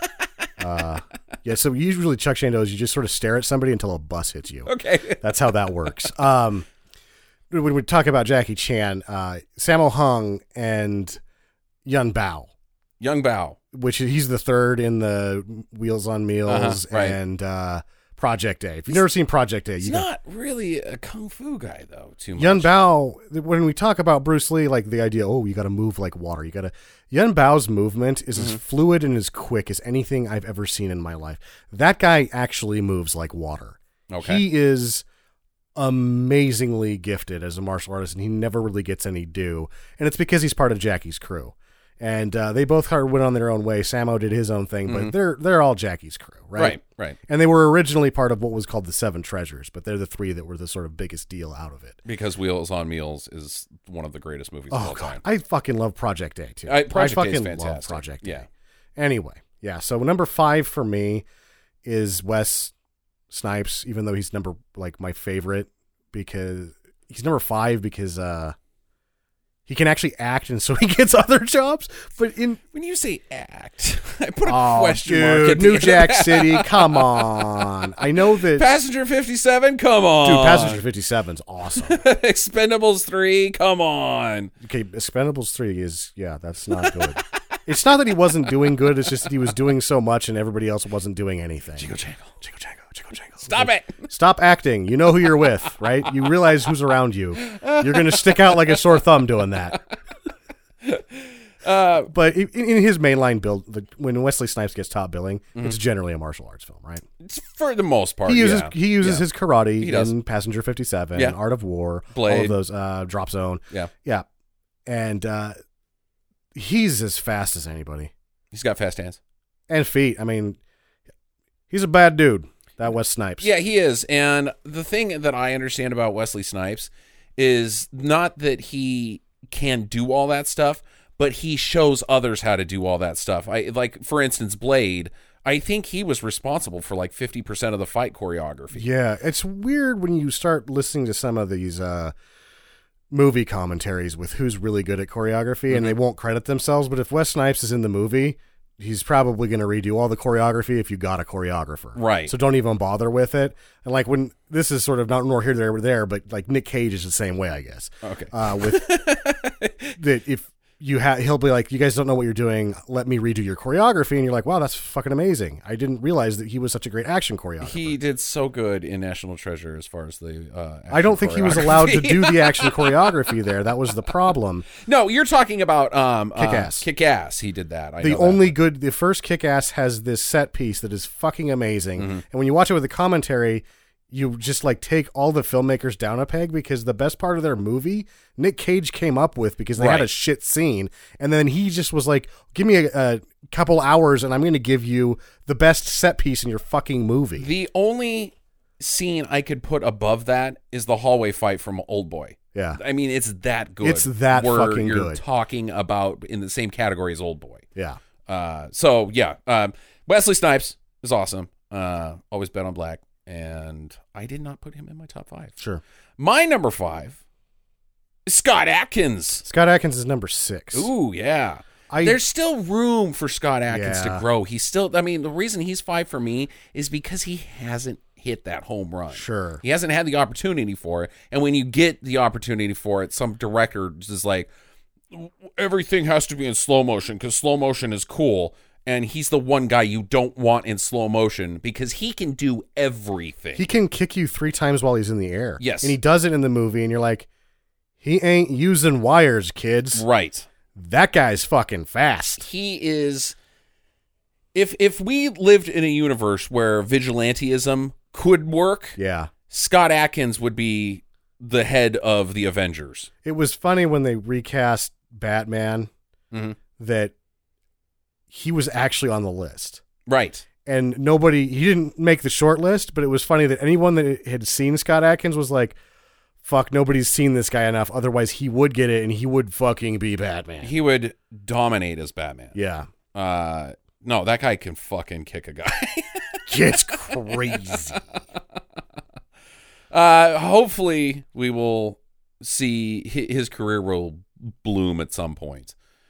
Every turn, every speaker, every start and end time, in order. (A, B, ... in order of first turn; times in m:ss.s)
0:00.6-0:06.7 A
0:04.6-0:05.2 B
0:07.5-0:11.2 A
0:11.8-0:12.5 A
0:13.0-0:13.6 B
0:13.7-0:20.1 A
0:16.4-0:17.2 B
0:19.8-0:22.7 B
0:22.4-0:35.0 A
0:34.1-0:34.4 B
0:35.8-0:52.0 A
0:44.8-0:45.1 B
0:46.6-0:47.2 B
0:52.0-0:55.2 B
0:54.7-0:58.4 A
0:56.7-0:58.4 B
0:59.0-1:01.2 A
1:01.8-1:02.7 A
1:03.3-1:08.5 A
1:09.7-1:12.6 A
1:12.7-1:17.7 B
1:14.4-1:18.7 A
1:18.4-1:20.8 B
1:20.2-1:22.0 A
1:21.7-1:24.5 B
1:24.6-1:31.9 A
1:26.8-1:27.0 B
1:31.8-1:32.3 B
1:32.4-1:39.8 A
1:33.4-1:34.1 B
1:37.4-1:38.8 B
1:40.8-1:42.1 B
1:42.1-1:47.0 A
1:47.2-1:49.3 B
1:48.2-1:54.2 A
1:49.8-1:50.1 B
1:52.1-1:52.6 B
1:54.8-1:55.5 A
1:56.5-1:58.1 A
1:58.5-1:59.2 B
1:59.7-2:00.6 A
2:01.7-2:03.5 A
2:03.4-2:18.9 B
2:18.7-2:22.1 A
2:23.1-2:38.9 A
2:25.7-2:26.0 B
2:32.0-2:32.3 B
2:38.0-2:40.0 B
2:40.0-2:48.0 A
2:47.6-2:53.1 B
2:50.9-2:54.7 A
2:54.8-2:58.6 B
2:56.4-2:56.8 A
2:58.0-3:17.5 A
3:02.0-3:02.2 B
3:09.8-3:10.1 B
3:17.4-3:27.6 B
3:22.5-3:22.8 A
3:23.8-3:25.2 A
3:28.3-3:35.6 B
3:36.2-3:37.2 B
3:38.2-3:39.4 B
3:39.4-3:40.9 A
3:40.7-3:54.5 B
3:41.9-3:42.2 A
3:43.7-3:44.2 A
3:49.1-3:49.6 A
3:55.1-4:03.6 B
4:03.5-4:07.3 A
4:05.6-4:06.0 B
4:08.0-4:10.0 A
4:09.9-4:10.5 B
4:10.7-4:12.5 A
4:12.4-4:13.4 B
4:14.5-4:19.0 B
4:19.0-4:19.3 A
4:19.5-4:23.1 B
4:23.2-4:25.9 A
4:26.3-4:26.6 B
4:26.8-4:27.1 A
4:28.3-4:29.8 A
4:30.1-4:30.4 B
4:30.6-4:35.8 A
4:36.4-4:40.7 A
4:40.6-4:42.5 B
4:42.5-4:42.9 A
4:43.1-4:48.0 B
4:46.5-4:48.0 A
4:49.9-4:55.7 B